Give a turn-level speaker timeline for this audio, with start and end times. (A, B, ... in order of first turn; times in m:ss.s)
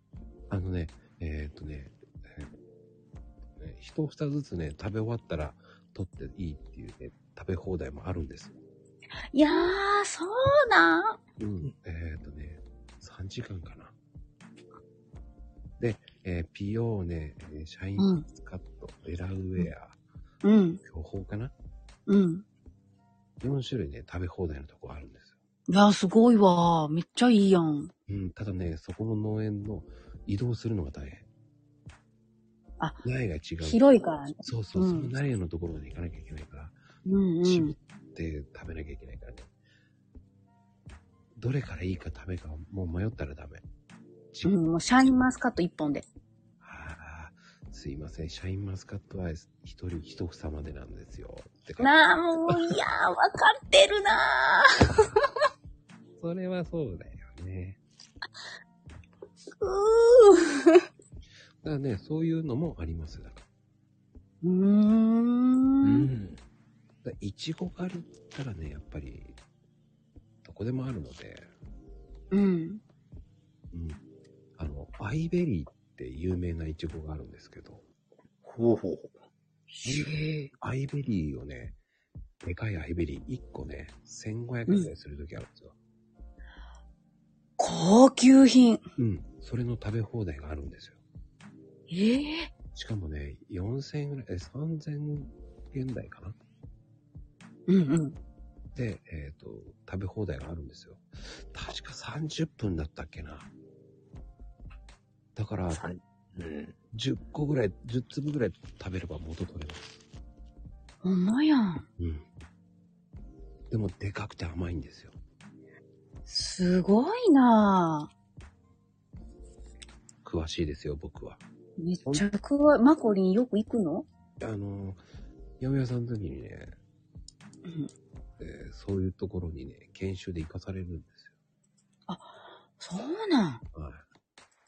0:00.5-0:02.5 A
0:03.6-0:08.6 A
0:09.3-0:11.2 B
0:11.4-0:13.9 A
0:15.8-0:19.9 A
0:18.0-0:18.2 B
0:20.4-0:20.8 B
0:20.8-0:21.5 A
0:22.1-0:22.4 B
0:23.4-0:25.3 A
0:25.7-0:27.9 B
0:28.1-0:31.2 A
0:33.0-0:33.8 A
0:33.6-0:35.1 B
0:34.4-0:36.7 A
0:37.0-0:37.8 B
0:37.4-0:39.5 A
0:41.4-0:43.6 A
0:44.4-0:46.0 B
0:46.6-0:51.9 A
0:51.8-0:55.0 B
0:56.2-0:57.8 A
0:59.6-1:00.8 B
1:01.6-1:03.4 A
1:04.4-1:06.1 B
1:05.8-1:06.4 C
1:07.0-1:09.4 A
1:10.4-1:11.5 A
1:12.3-1:12.8 B
1:13.7-1:14.0 A
1:14.6-1:17.8 A
1:18.4-1:19.1 C
1:19.7-1:20.5 B
1:19.8-1:21.7 A
1:22.4-1:25.7 A
1:27.6-1:28.8 B
1:29.0-1:31.0 A
1:31.9-1:32.5 B
1:32.7-1:36.4 A
1:37.7-1:38.2 B
1:38.7-1:43.5 A
1:45.4-1:45.8 A
1:45.7-1:46.7 C
1:46.9-1:50.0 A
1:51.0-1:51.9 B
1:52.0-1:52.2 A
1:53.7-1:55.2 A
1:56.3-1:58.1 B
2:00.2-2:01.4 A
2:01.8-2:04.0 B
2:04.4-2:05.0 A
2:05.6-2:06.7 A
2:07.6-2:07.9 B
2:08.4-2:11.3 A
2:12.1-2:13.6 B
2:13.7-2:14.0 A